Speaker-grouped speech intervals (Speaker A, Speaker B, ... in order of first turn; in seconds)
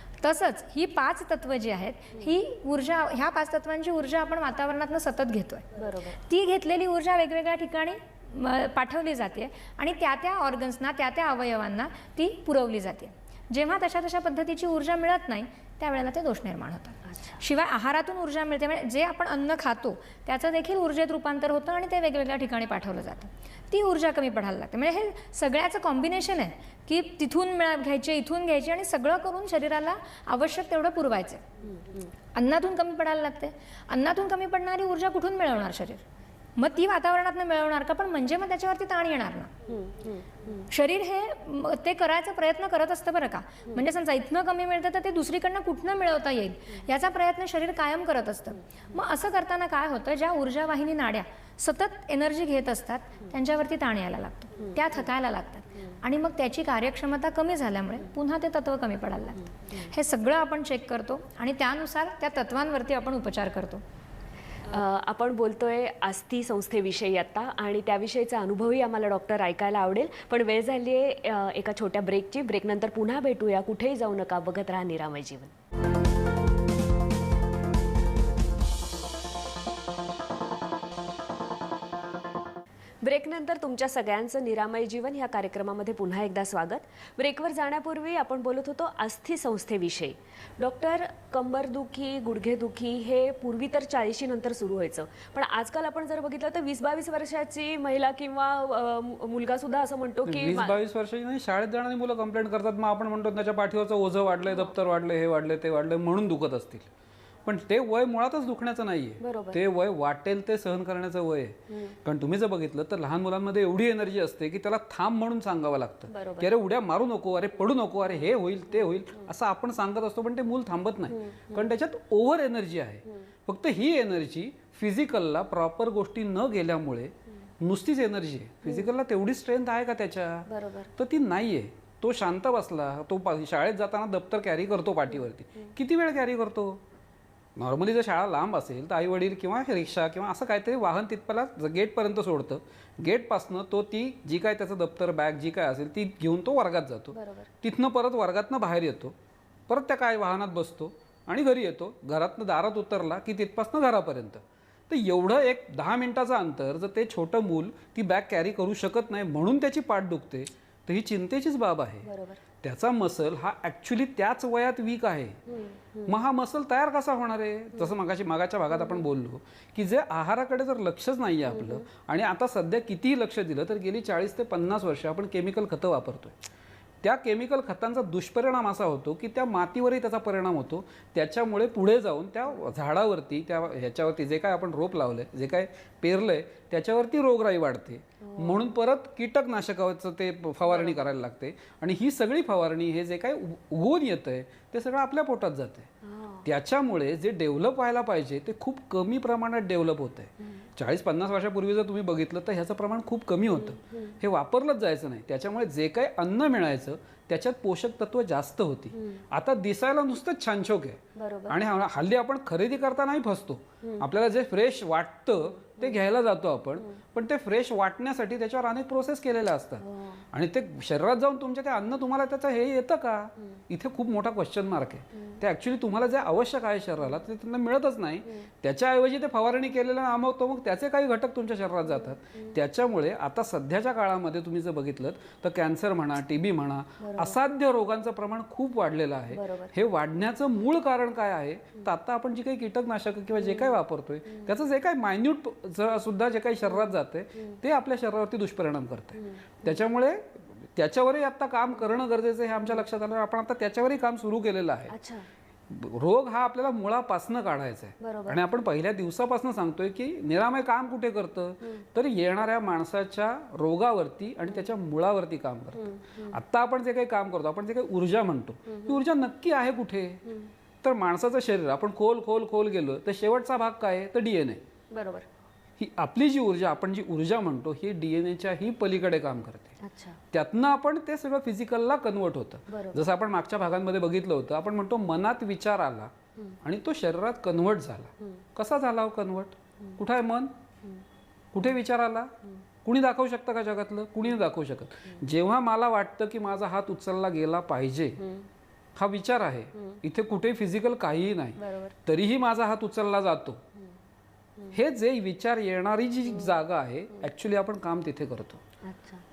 Speaker A: 0.2-31.4, 32.3-36.0, 36.5-39.5, 40.7-63.8
Speaker B: 5.8-6.2, 31.7-32.1, 39.7-40.7, 64.7-75.5, 83.0-100.8, 109.2-109.6, 116.1-116.5, 121.1-121.7, 130.5-130.9, 147.1-147.5, 162.0-162.4, 165.5-166.2, 171.5-171.8, 188.2-188.7, 190.7-191.1, 196.0-196.4, 203.5-204.1, 208.9-209.2, 211.2-211.6, 219.8-220.2, 237.0-237.4, 239.3-239.7, 243.3-243.8, 246.7-247.6, 249.2-249.6, 254.9-255.2, 258.0-258.4, 265.8-266.4, 268.7-269.0, 274.9-275.2, 279.8-280.2, 282.7-283.0, 298.2-298.5, 301.6-301.9, 306.3-306.6, 308.8-309.2
Speaker C: 100.2-106.9, 107.5-136.8, 137.6-149.1, 149.7-162.1, 162.6-165.4, 166.1-176.3, 177.0-195.9, 196.4-254.9, 255.7-270.2, 270.8-274.6, 275.8-279.7, 280.3-290.5, 291.5-292.3, 292.8-298.2, 298.9-303.6, 304.7-308.6